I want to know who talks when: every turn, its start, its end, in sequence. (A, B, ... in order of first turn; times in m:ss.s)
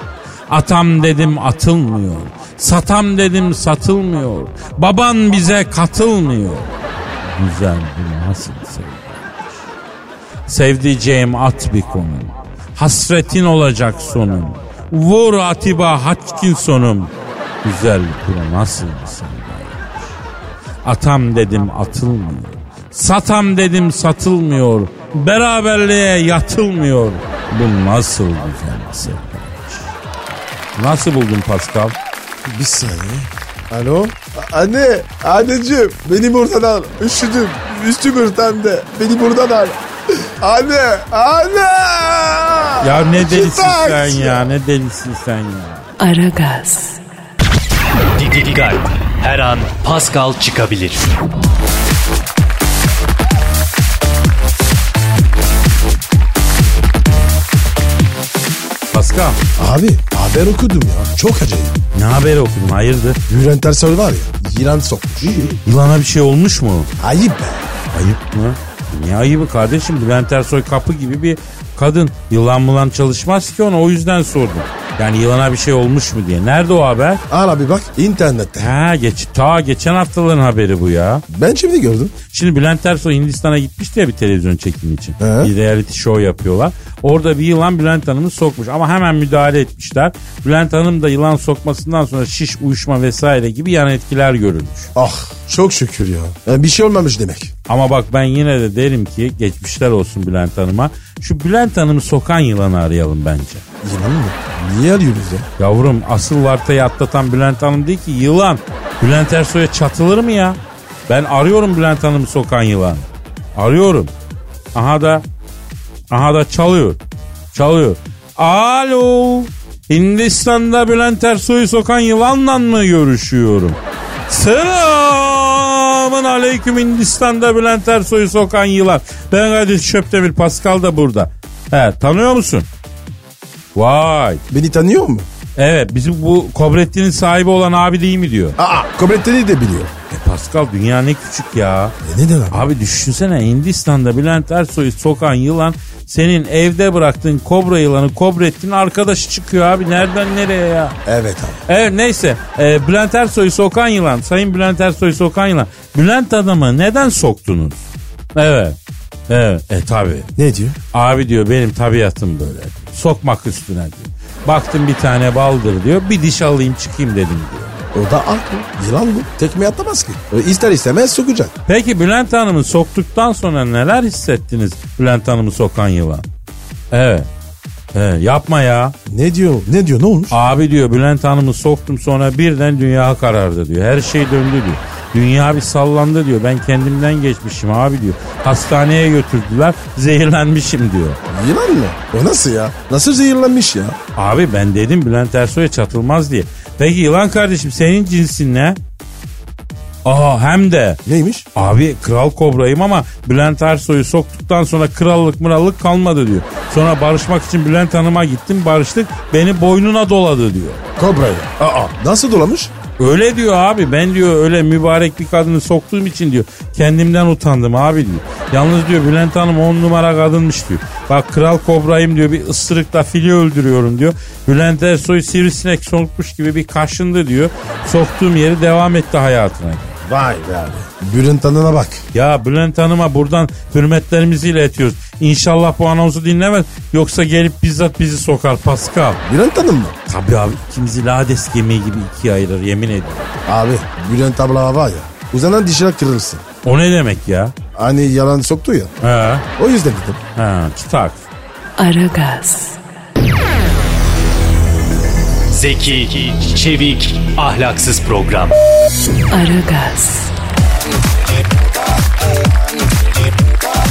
0:00.5-0:06.7 A
0:07.2-0:09.6 A
0:10.5-0:17.1 A
0:17.6-0:20.1 A
0:20.8-0:29.9 A
0:30.8-0:32.0 A
0:32.4-0:44.6 B
0:42.8-0:45.9 A
0:46.0-0:47.0 C
0:48.1-0:51.0 D
0:58.9-0:59.4 A
0:59.6-1:01.8 B
1:01.9-1:03.2 A
1:03.3-1:05.6 B
1:05.2-1:06.9 A
1:07.0-1:07.7 B
1:07.9-1:17.2 A
1:17.3-1:18.7 B
1:18.6-1:21.2 A
1:21.3-1:22.1 B
1:22.3-1:34.9 A
1:25.2-1:25.5 B
1:35.0-1:37.5 B
1:37.7-1:43.6 A
1:43.8-1:45.5 B
1:45.6-1:54.1 A
1:54.7-1:55.2 A
1:56.1-1:57.0 A
1:57.5-2:03.8 A
2:04.3-2:12.6 A
2:13.7-2:14.4 A
2:14.5-2:15.3 B
2:15.6-2:18.6 A
2:18.6-2:19.9 B
2:20.1-2:21.9 A
2:22.0-2:22.6 B
2:22.5-2:31.0 A
2:31.0-2:31.6 B
2:31.7-2:37.8 A
2:38.3-2:38.8 A
2:39.3-2:40.3 A
2:40.4-2:40.8 B
2:40.9-2:47.8 A
2:47.9-2:51.5 B
2:51.7-2:56.2 A
2:56.9-2:57.3 A
2:57.9-2:58.9 A
2:59.1-3:00.4 B
3:00.3-3:11.2 A
3:11.3-3:14.0 B
3:14.2-3:18.8 A
3:20.0-3:21.0 A
3:21.0-3:21.4 B
3:21.5-3:30.8 A
3:31.0-3:32.7 B
3:33.0-3:50.0 A
3:50.0-3:52.0 B
3:52.1-3:59.2 A
3:59.2-4:00.0 B
4:00.1-4:03.3 A
4:03.5-4:06.4 B
4:06.6-4:07.5 A
4:07.7-4:08.9 B
4:09.0-4:09.4 A
4:09.6-4:10.2 B
4:10.4-4:11.2 A
4:11.8-4:12.8 C
4:15.5-4:18.5 D
4:19.3-4:20.3 C